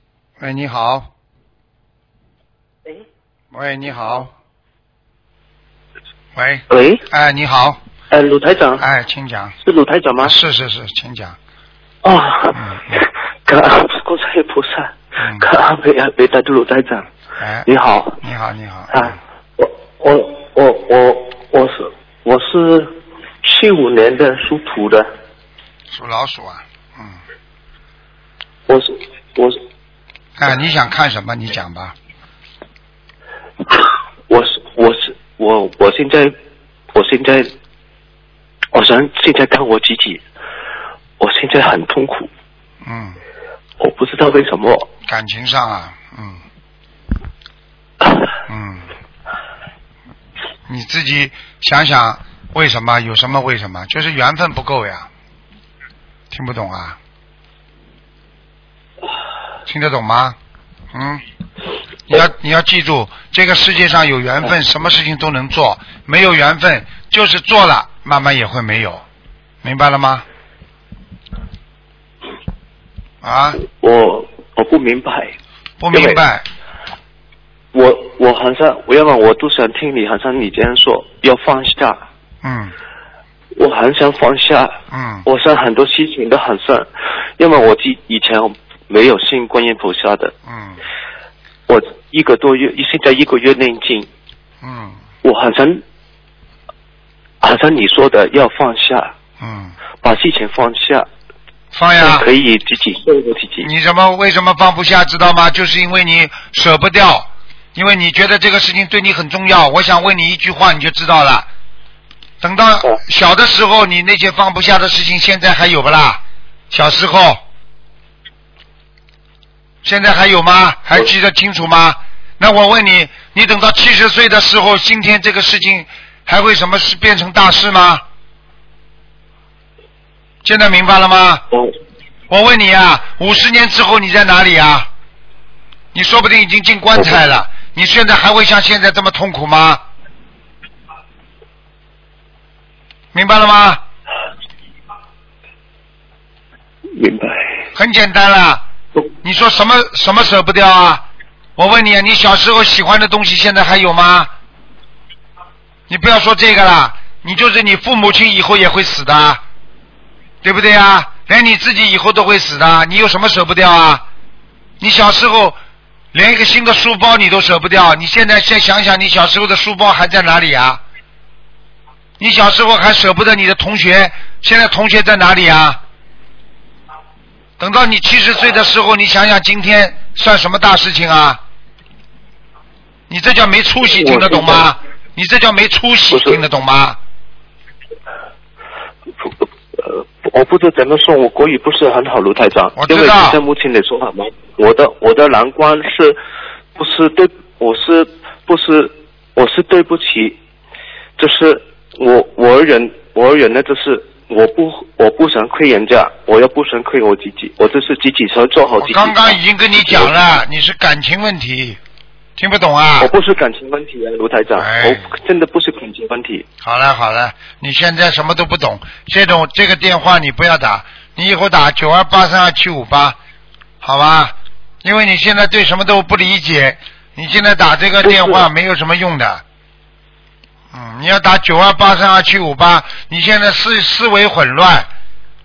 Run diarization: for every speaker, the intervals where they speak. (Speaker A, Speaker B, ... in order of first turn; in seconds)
Speaker A: 0.4-1.1, 3.5-4.3, 6.4-7.8, 8.8-9.6, 10.2-11.4, 12.6-13.1, 15.2-15.5, 17.4-17.7, 18.2-19.1, 25.9-27.2, 30.4-31.9, 42.8-43.2, 45.1-46.4, 48.5-48.9, 50.7-55.1, 56.3-57.0, 59.7-60.4, 60.9-61.2, 62.1-69.0, 69.6-70.2, 73.2-73.6, 75.8-76.5, 82.4-82.7, 84.9-85.2, 90.5-90.8, 94.6-95.0, 99.4-99.8, 101.7-102.3, 103.6-111.5, 112.4-117.4, 119.8-128.0, 130.4-131.4, 132.3-134.9, 135.9-139.8, 143.1-143.8, 147.8-148.7, 149.2-151.0, 151.6-154.3, 155.9-159.4, 160.4-164.0, 164.8-165.6, 166.1-170.8, 172.2-175.8, 177.6-181.4, 183.1-187.0, 192.8-193.4, 208.8-211.8, 212.4-213.1, 214.6-215.1, 216.6-223.2, 223.8-229.4, 230.7-234.9
Speaker B: 6.7-7.0, 8.1-8.8, 9.6-10.3, 12.0-17.1, 17.7-18.2, 18.9-25.1, 28.7-29.6, 33.7-36.3, 36.9-37.5, 38.7-40.2, 41.2-42.3, 43.8-44.9, 73.6-75.3, 75.9-76.2, 77.7-82.0, 83.5-90.3, 91.7-94.1, 95.2-95.8, 97.4-99.1, 100.0-101.1, 102.0-103.7, 146.9-147.6, 183.8-184.7, 186.1-186.4, 189.2-196.2, 196.8-200.4, 201.2-210.3, 213.0-216.4, 228.2-228.4